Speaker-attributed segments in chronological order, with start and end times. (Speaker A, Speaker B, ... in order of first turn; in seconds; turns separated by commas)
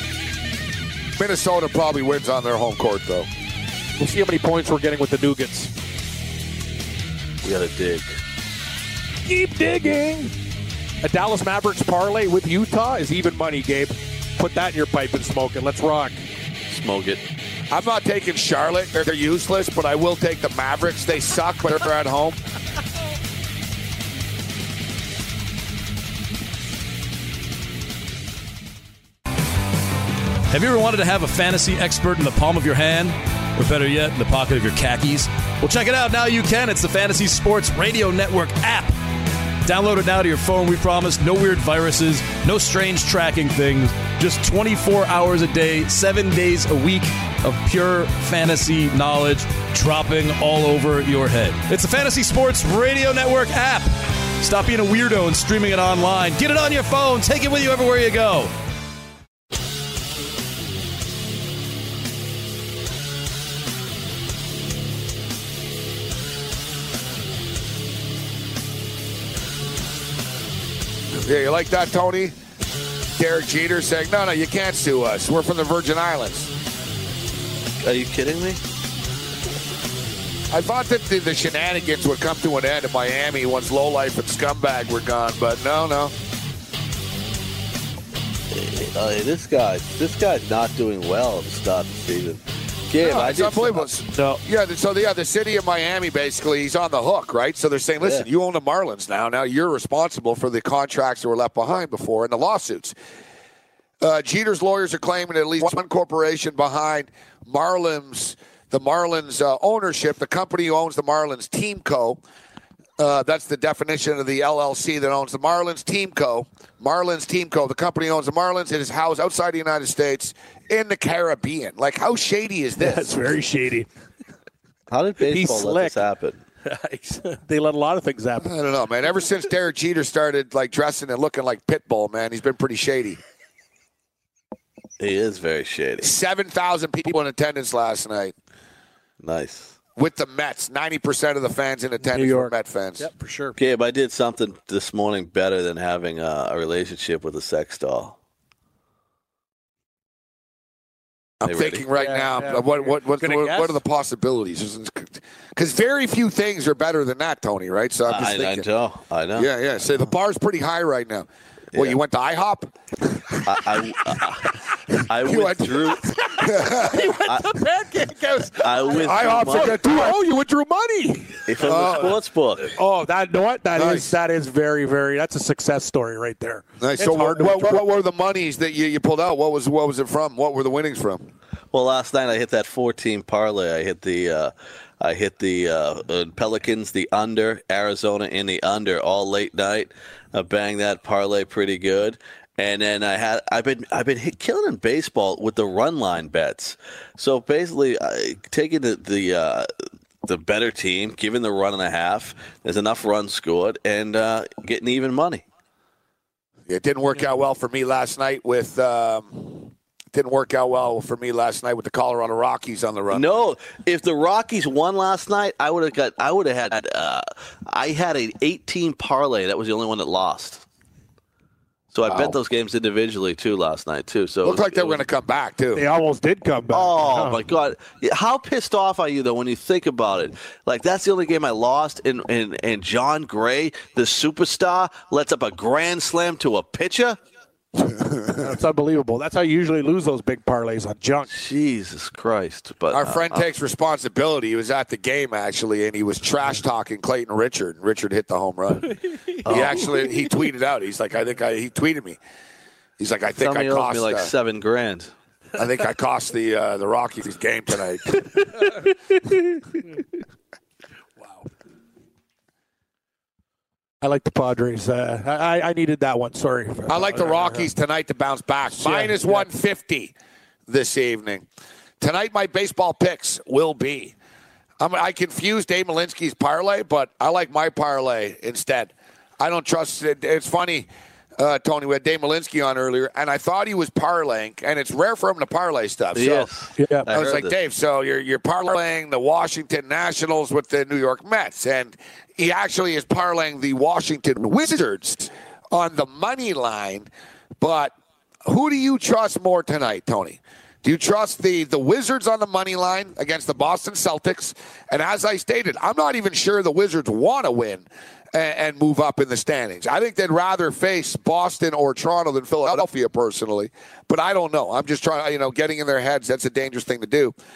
Speaker A: 1.2-3.3, Speaker B: 4.0-5.7, Speaker C: 7.4-8.2, Speaker B: 9.3-10.3, Speaker B: 11.0-16.2, Speaker C: 16.7-17.2, Speaker A: 17.7-22.4, Speaker D: 30.5-39.0, Speaker D: 39.6-58.5, Speaker A: 71.2-72.3, Speaker A: 73.2-76.5, Speaker C: 77.8-78.6, Speaker A: 80.5-86.1, Speaker C: 88.5-93.9, Speaker A: 93.0-103.0, Speaker B: 94.1-94.4, Speaker C: 98.0-98.3, Speaker A: 104.0-112.2, Speaker A: 113.0-123.2, Speaker B: 122.8-123.9, Speaker C: 124.9-126.4, Speaker B: 125.2-126.0, Speaker B: 126.7-128.5, Speaker A: 128.4-133.2, Speaker C: 135.0-136.1, Speaker A: 136.0-138.3, Speaker C: 139.2-139.7, Speaker A: 140.0-143.1, Speaker B: 142.0-143.6, Speaker C: 143.6-148.2, Speaker A: 151.4-158.7, Speaker C: 151.4-151.9, Speaker B: 151.9-153.8, Speaker C: 158.1-159.5, Speaker A: 159.4-163.4, Speaker C: 161.7-162.0, Speaker C: 163.4-166.1, Speaker A: 165.2-167.1, Speaker B: 166.2-171.5, Speaker C: 167.2-167.6, Speaker C: 168.6-169.8, Speaker A: 168.9-170.2, Speaker C: 171.5-172.8, Speaker A: 171.6-172.2, Speaker B: 172.7-177.9, Speaker A: 173.8-174.2, Speaker A: 176.8-181.3, Speaker C: 181.7-199.7, Speaker C: 200.2-205.4, Speaker A: 206.7-213.4, Speaker C: 213.1-220.7, Speaker C: 221.9-225.0, Speaker A: 222.1-222.3, Speaker A: 224.4-225.8, Speaker B: 225.8-227.4, Speaker C: 226.7-237.2, Speaker A: 237.9-238.3, Speaker B: 238.4-241.3, Speaker C: 241.3-243.5, Speaker A: 242.9-252.2, Speaker C: 249.4-249.9, Speaker A: 253.0-254.3, Speaker C: 253.4-255.1, Speaker A: 255.6-258.7, Speaker B: 264.0-267.7, Speaker A: 266.9-270.1, Speaker B: 268.7-269.5, Speaker A: 270.7-271.4, Speaker A: 272.0-274.1, Speaker A: 274.8-280.9, Speaker A: 281.4-286.5, Speaker C: 286.1-287.6, Speaker B: 286.8-287.1, Speaker A: 287.1-297.1, Speaker A: 297.6-297.9, Speaker A: 298.5-317.4